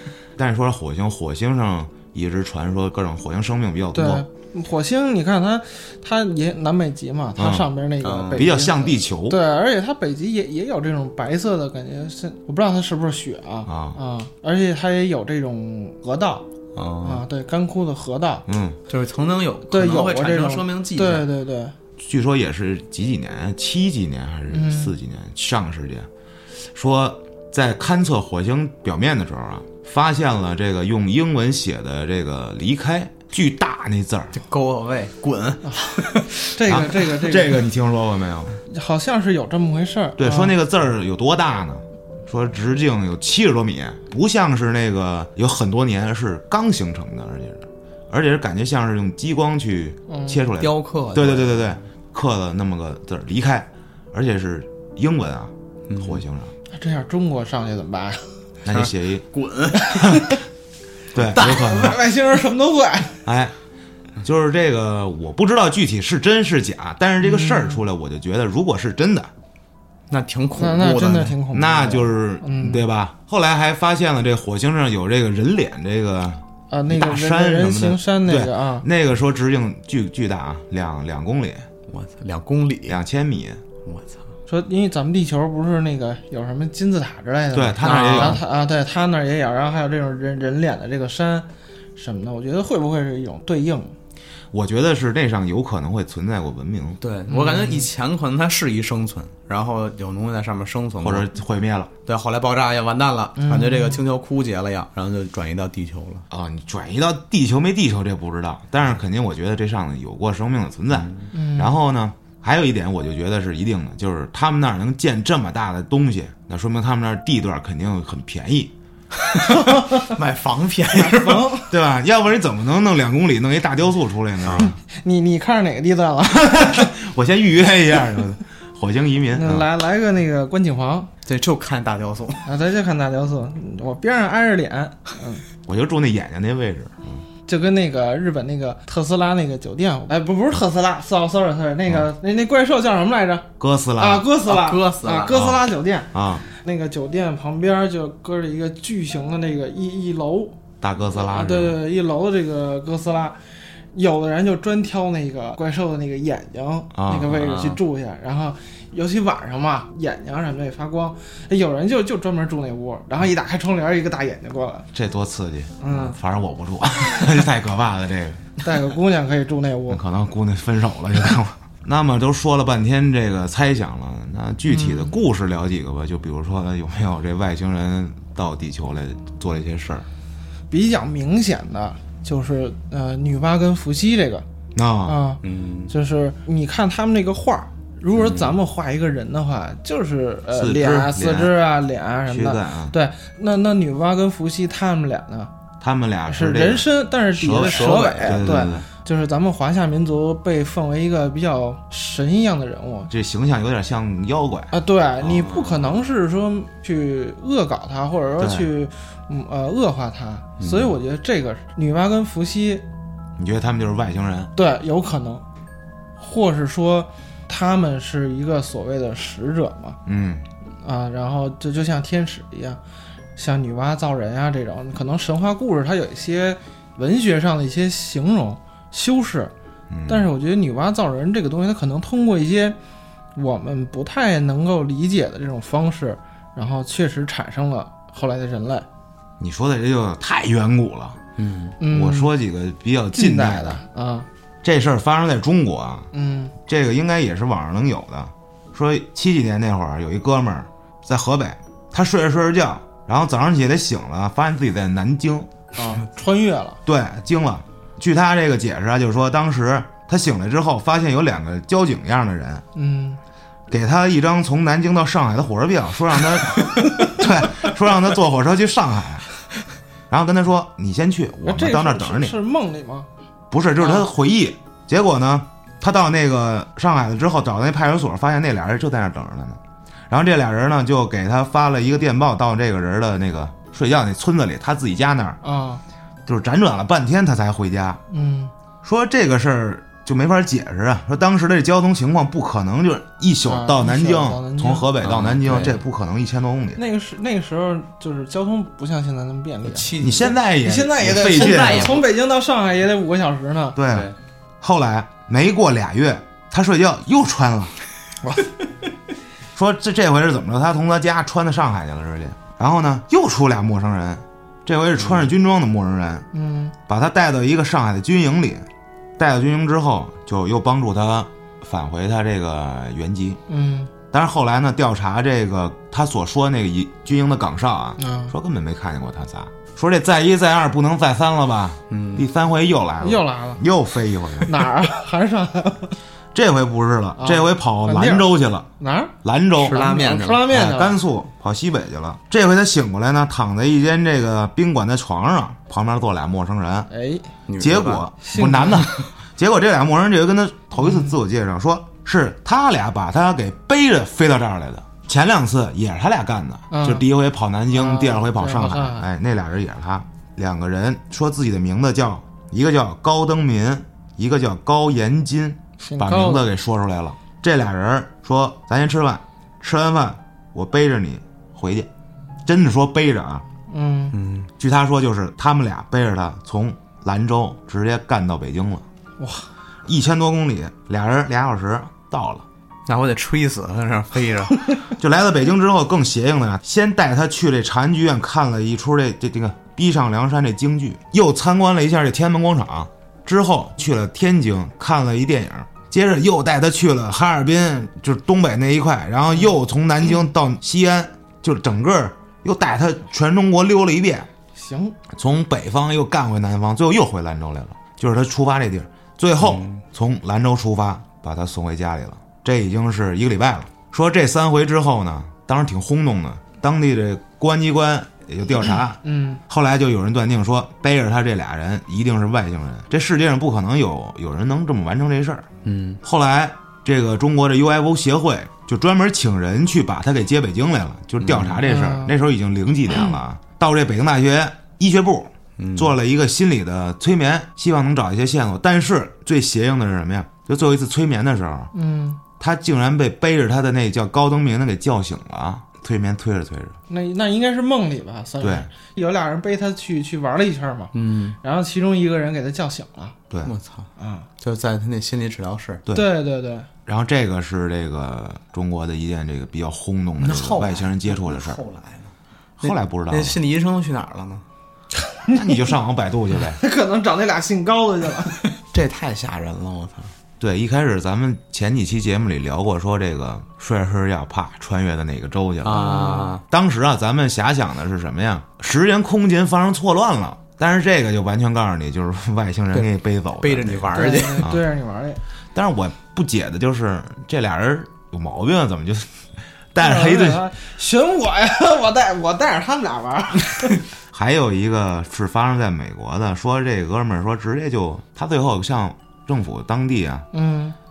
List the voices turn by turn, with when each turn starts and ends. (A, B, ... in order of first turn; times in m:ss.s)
0:00.4-0:04.2 A
0:03.9-0:16.4 B
0:07.4-0:07.7 A
0:08.0-0:08.5 C
0:08.3-0:09.4 A
0:13.7-0:14.0 A
0:16.7-0:17.3 C
0:17.0-0:18.4 B
0:18.5-0:18.8 A
0:18.9-0:21.2 C
0:19.7-0:21.8 B
0:22.0-0:34.4 A
0:24.5-0:24.9 B
0:34.3-0:36.4 C
0:35.7-0:37.6 B
0:36.6-0:38.6 A
0:38.7-0:40.6 B
0:40.2-0:56.5 A
0:50.1-0:50.4 B
0:50.6-0:51.7 C
0:55.9-0:56.2 C
0:56.7-0:58.4 B
0:58.6-0:59.2 A
0:58.7-1:00.2 C
0:59.8-1:00.4 B
1:01.1-1:02.0 A
1:01.3-1:01.7 C
1:01.3-1:03.2 B
1:03.2-1:03.5 A
1:04.2-1:09.3 A
1:07.2-1:07.8 B
1:10.1-1:11.4 C
1:10.5-1:12.8 B
1:11.5-1:21.7 A
1:16.7-1:18.8 B
1:21.9-1:23.0 C
1:22.9-1:23.6 A
1:23.8-1:24.2 C
1:24.5-1:33.9 B
1:27.5-1:28.4 A
1:27.8-1:28.4 C
1:34.5-1:37.0 A
1:37.0-1:41.3 C
1:37.3-1:37.9 B
1:41.0-1:41.9 A
1:42.0-1:46.2 C
1:43.4-1:44.0 B
1:46.3-1:58.7 A
1:50.9-1:51.3 C
1:51.3-1:51.8 B
1:59.2-2:01.5 C
1:59.5-2:00.1 B
2:00.9-2:01.7 B
2:01.7-2:04.8 A
2:04.4-2:04.7 C
2:04.6-2:06.9 B
2:06.3-2:09.7 A
2:09.3-2:11.1 B
2:11.2-2:12.5 C
2:12.4-2:15.4 B
2:15.6-2:17.2 A
2:17.4-2:30.6 B
2:23.6-2:24.2 A
2:24.4-2:25.4 C
2:25.3-2:25.6 A
2:26.1-2:26.4 A
2:30.8-2:31.8 A
2:31.1-2:33.4 B
2:33.9-2:44.9 B
2:36.9-2:37.4 A
2:37.4-2:37.7 C
2:44.9-2:48.5 A
2:45.8-2:46.2 B
2:48.6-2:50.0 B
2:49.9-3:00.1 A
2:54.7-2:55.1 B
3:00.7-3:04.4 B
3:04.7-3:05.2 A
3:05.0-3:15.5 B
3:05.4-3:05.9 C
3:08.2-3:08.6 C
3:10.5-3:11.6 A
3:12.3-3:13.0 A
3:15.8-3:18.9 A
3:16.3-3:23.1 B
3:17.5-3:18.6 C
3:23.1-3:24.7 A
3:24.7-3:32.8 B
3:25.3-3:26.0 C
3:28.4-3:28.7 A
3:30.6-3:30.9 C
3:33.4-3:34.5 A
3:34.5-3:35.4 B
3:36.2-3:40.0 B
3:40.0-3:40.4 A
3:40.8-3:42.8 B
3:43.4-3:49.5 B
3:49.9-3:50.3 A
3:50.1-3:52.8 B
3:53.3-3:58.8 B
3:59.4-4:01.2 A
4:01.4-4:01.8 C
4:01.8-4:02.3 B
4:01.9-4:03.8 A
4:03.1-4:04.3 B
4:04.6-4:06.1 A
4:06.1-4:06.5 B
4:06.6-4:15.5 A
4:15.8-4:16.8 B
4:16.8-4:22.6 A
4:22.7-4:23.2 B
4:23.7-4:29.3 A
4:26.8-4:27.1 B
4:30.1-4:32.4 A
4:31.4-4:33.1 B
4:33.5-4:45.4 A
4:33.8-4:34.0 B
4:45.4-4:45.8 B
4:46.2-4:48.0 A
4:48.1-4:48.5 B
4:48.8-4:56.8 A
4:53.4-4:54.9 B
4:55.0-4:55.8 C
4:56.8-5:03.8 B
4:59.6-5:00.4 C
5:00.0-5:02.0 A
5:01.1-5:02.0 C
5:03.8-5:04.1 A
5:03.9-5:04.1 C
5:04.6-5:07.8 A
5:09.5-5:16.2 A
5:16.3-5:16.7 B
5:16.9-5:18.6 A
5:19.2-5:23.4 A
5:23.5-5:23.9 B
5:24.1-5:34.5 A
5:28.0-5:28.3 B
5:31.9-5:32.3 C
5:33.0-5:33.6 B
5:34.4-5:36.0 B
5:36.3-5:38.7 A
5:37.2-5:39.1 B
5:39.2-5:39.8 A
5:39.6-5:40.5 C
5:39.7-5:41.0 B
5:40.5-5:46.9 A
5:46.9-5:47.3 B
5:47.5-5:48.0 C
5:47.6-6:11.9 A
5:48.2-5:48.9 B
5:50.8-5:51.2 B
5:56.7-5:57.0 B
5:57.7-5:59.1 B
6:05.8-6:06.4 B
6:12.4-6:13.4 A
6:13.7-6:14.2 B
6:14.1-6:14.5 C
6:14.6-6:18.8 A
6:19.2-6:19.5 B
6:19.9-6:22.4 A
6:22.9-6:24.6 C
6:25.0-6:44.3 A
6:44.5-6:45.0 B
6:45.1-7:05.5 A
6:49.4-6:49.8 C
6:59.0-6:59.4 B
7:05.6-7:06.0 C
7:06.0-7:21.7 A
7:11.2-7:11.6 C
7:11.6-7:12.1 B
7:15.6-7:15.9 C
7:21.7-7:22.2 B
7:22.4-7:26.8 A
7:26.9-7:33.2 B
7:28.4-7:28.7 A
7:30.9-7:31.4 C
7:33.4-7:33.9 C
7:34.0-7:34.3 B
7:34.4-7:35.8 C
7:35.9-7:36.7 B
7:36.8-7:41.6 A
7:40.2-7:44.4 C
7:42.6-7:43.4 A
7:45.0-7:45.6 B
7:45.3-7:46.6 A
7:46.6-7:48.4 B
7:48.5-7:50.1 C
7:50.4-7:55.8 A
7:55.6-7:56.4 C
7:55.7-7:56.3 B
7:56.5-8:04.6 A
8:02.7-8:04.4 C
8:03.9-8:05.2 B
8:05.5-8:10.4 A
8:09.8-8:13.8 B
8:14.1-8:20.2 A
8:20.3-8:20.8 B